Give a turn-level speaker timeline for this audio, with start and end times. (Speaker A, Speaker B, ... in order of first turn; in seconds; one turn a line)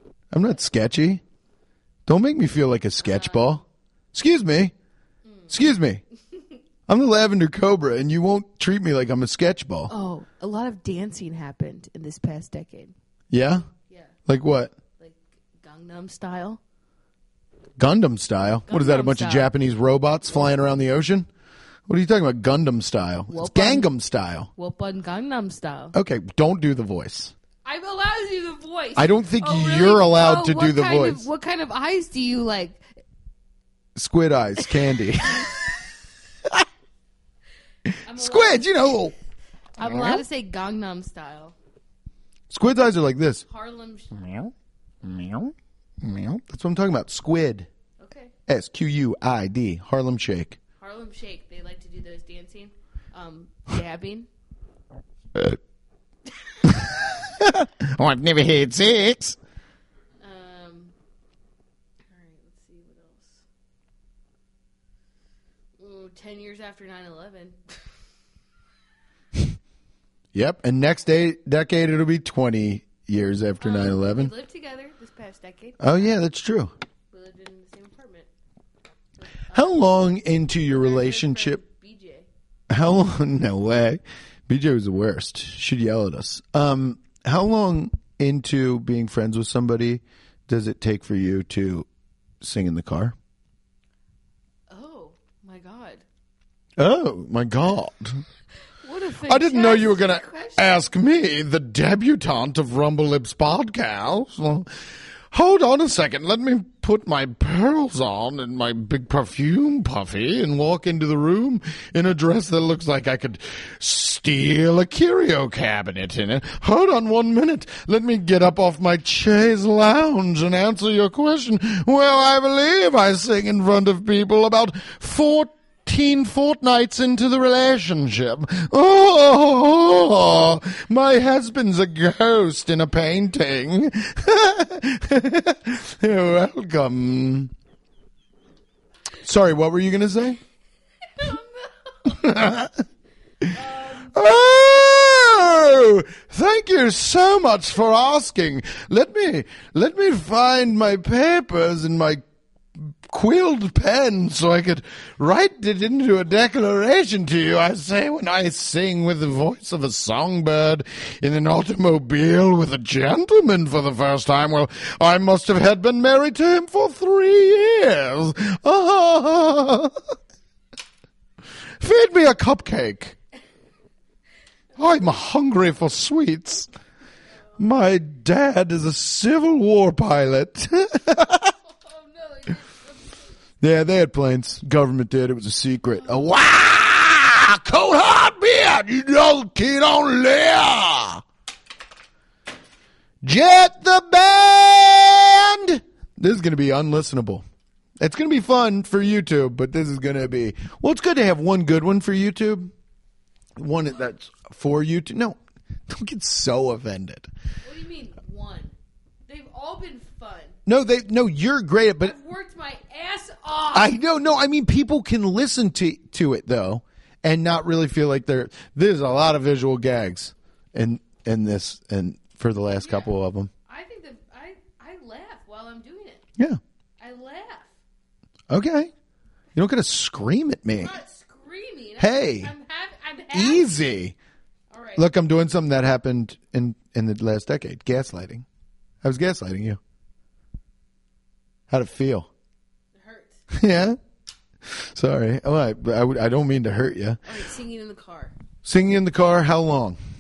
Speaker A: 0.3-1.2
Speaker A: 2.1-3.6
Speaker B: 3.0-3.6
Speaker A: 4.1-4.7
Speaker B: 5.2-5.5
Speaker A: 5.5-6.0
Speaker A: 6.9-9.9
Speaker B: 9.9-12.9
Speaker A: 13.3-13.7
Speaker B: 13.8-14.1
Speaker A: 14.3-14.7
Speaker B: 15.0-16.6
Speaker A: 17.8-21.3
Speaker B: 18.7-19.5
Speaker A: 21.9-24.5
Speaker B: 23.3-23.9
Speaker B: 24.6-25.9
Speaker A: 25.9-27.3
Speaker B: 27.6-32.8
Speaker A: 29.0-31.3
Speaker A: 34.0-35.5
Speaker B: 34.6-35.7
Speaker A: 37.9-39.1
Speaker B: 38.1-39.0
Speaker B: 39.8-41.5
Speaker A: 39.8-40.2
Speaker A: 42.5-43.4
Speaker B: 43.5-44.4
Speaker A: 44.2-44.5
Speaker A: 45.0-47.7
Speaker B: 48.0-48.3
Speaker A: 48.5-50.6
Speaker B: 50.8-54.3
Speaker A: 56.6-59.4
Speaker B: 60.2-60.9
Speaker B: 62.1-63.5
Speaker B: 65.8-67.8
Speaker A: 70.3-74.3
Speaker B: 73.6-76.2
Speaker A: 75.8-76.7
Speaker B: 77.1-78.3
Speaker B: 79.2-79.9
Speaker A: 79.5-81.6
Speaker B: 80.7-82.3
Speaker A: 82.7-91.9
Speaker A: 92.4-93.2
Speaker B: 94.7-96.0
Speaker A: 96.8-98.2
Speaker B: 98.8-100.9
Speaker A: 99.3-104.7
Speaker A: 105.3-137.5
Speaker A: 139.2-140.4
Speaker B: 141.2-141.7
Speaker A: 142.1-142.8
Speaker B: 143.5-144.2
Speaker A: 144.1-152.2
Speaker A: 152.9-170.0
Speaker A: 171.8-173.2
Speaker A: 174.8-176.7
Speaker A: 177.6-181.5
Speaker B: 181.7-183.3
Speaker A: 183.6-191.2
Speaker B: 186.0-186.3
Speaker A: 193.2-197.4
Speaker A: 198.0-202.7
Speaker A: 203.6-207.3
Speaker B: 207.6-208.7
Speaker B: 209.3-210.6
Speaker A: 210.7-212.1
Speaker B: 212.0-214.0
Speaker A: 213.7-223.5
Speaker B: 222.8-223.1
Speaker B: 223.7-226.2
Speaker B: 227.0-227.8
Speaker A: 228.5-228.9
Speaker A: 229.6-230.9
Speaker B: 230.8-233.8
Speaker A: 232.0-232.5
Speaker A: 233.3-234.2
Speaker B: 234.7-235.1
Speaker A: 235.0-238.4
Speaker A: 239.0-239.8
Speaker A: 241.7-242.3
Speaker B: 242.9-243.4
Speaker A: 243.5-244.0
Speaker A: 244.7-247.2
Speaker B: 247.2-248.3
Speaker A: 248.6-250.0